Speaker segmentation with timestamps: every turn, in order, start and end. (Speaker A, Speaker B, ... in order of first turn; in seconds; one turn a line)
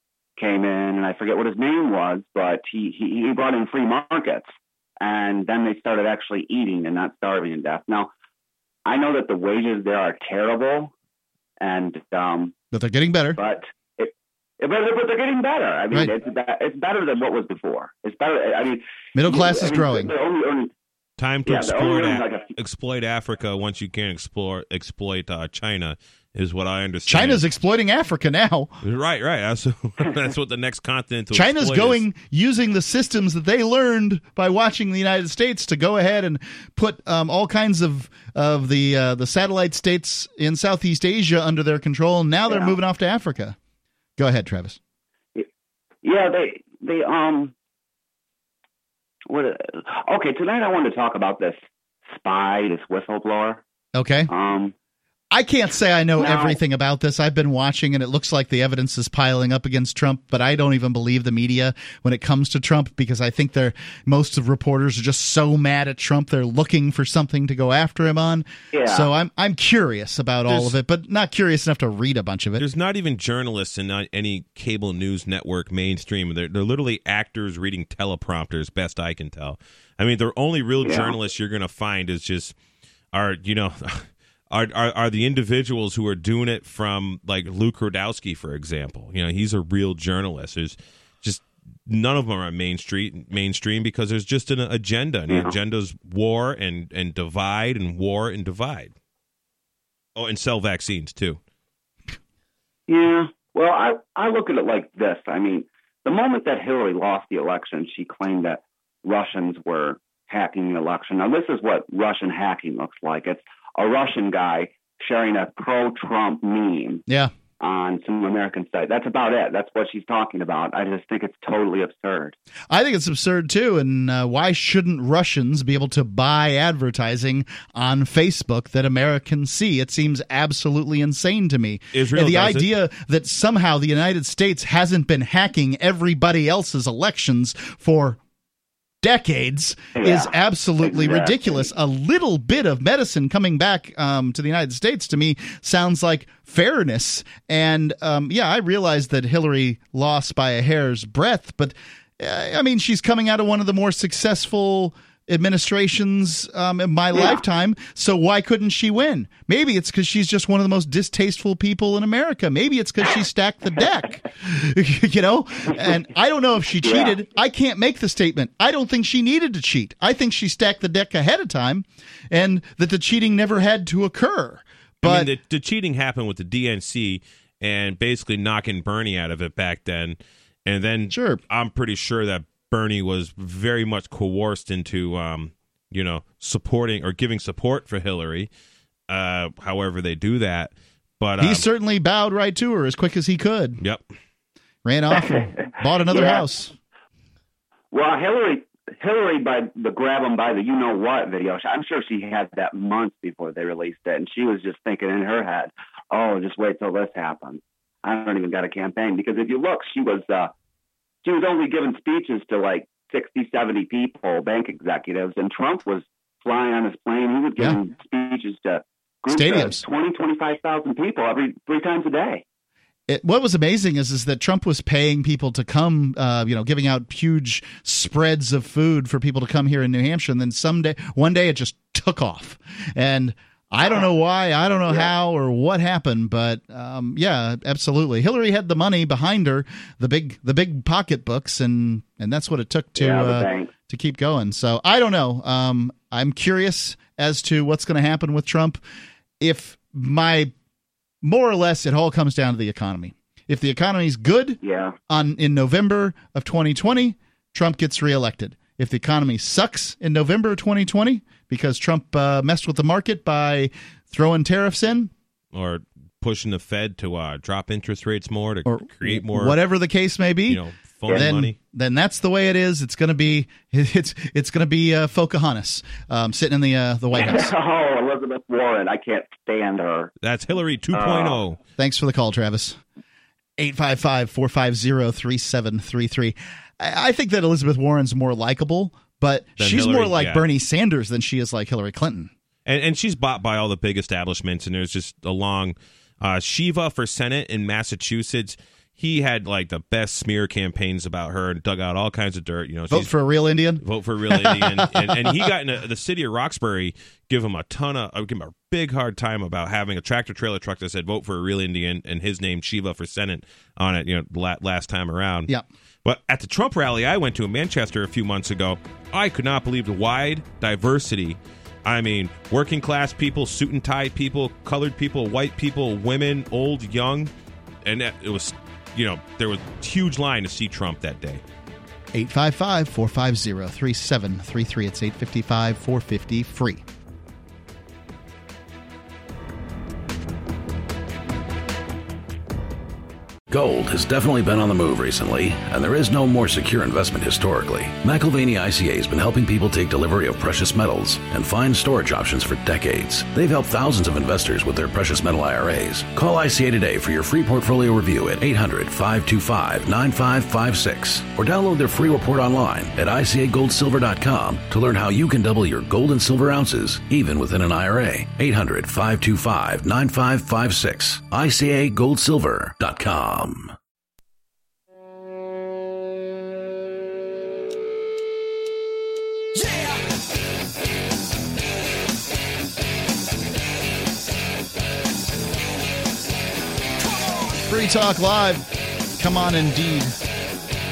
Speaker A: 0.4-8.1
Speaker A: 8.8-10.9
Speaker A: 11.6-12.5
Speaker B: 12.7-13.4
Speaker A: 13.4-20.7
Speaker B: 19.1-20.1
Speaker C: 21.2-27.4
Speaker A: 21.4-22.5
Speaker B: 27.1-28.7
Speaker C: 28.8-32.0
Speaker B: 31.3-43.5
Speaker A: 42.5-42.8
Speaker B: 44.2-44.8
Speaker A: 46.0-47.5
Speaker A: 49.3-53.6
Speaker B: 54.0-54.3
Speaker A: 54.3-54.7
Speaker B: 55.3-72.6
Speaker A: 56.2-56.6
Speaker A: 68.7-69.1
Speaker C: 70.5-70.8
Speaker C: 72.6-82.5
Speaker A: 80.8-81.2
Speaker C: 83.1-98.9
Speaker A: 95.3-95.5
Speaker C: 100.2-101.4
Speaker A: 102.9-117.0
Speaker B: 117.1-117.3
Speaker A: 117.6-122.3
Speaker B: 122.7-138.2
Speaker C: 131.9-132.7
Speaker B: 139.0-175.3
Speaker A: 139.9-141.7
Speaker A: 166.8-167.2
Speaker C: 175.0-188.5
Speaker B: 181.1-181.4
Speaker C: 189.1-191.7
Speaker B: 191.4-193.8
Speaker B: 194.8-196.7
Speaker A: 195.1-196.5
Speaker A: 197.9-210.5
Speaker A: 211.2-222.4
Speaker B: 219.3-219.8
Speaker B: 223.1-248.8
Speaker A: 242.9-243.7
Speaker B: 249.4-250.5
Speaker B: 251.2-265.1
Speaker A: 254.6-254.9
Speaker C: 265.5-269.6
Speaker B: 268.6-277.5
Speaker C: 270.5-271.6
Speaker A: 277.1-280.1
Speaker C: 280.2-281.6
Speaker A: 280.9-281.4
Speaker B: 281.8-282.8
Speaker B: 283.6-292.3
Speaker C: 289.6-290.4
Speaker C: 292.6-303.1
Speaker B: 302.9-305.3
Speaker C: 303.8-315.5
Speaker C: 316.0-327.3
Speaker C: 327.8-331.4
Speaker B: 332.1-336.8
Speaker D: 343.5-373.7
Speaker B: 387.6-388.7
Speaker B: 389.2-390.1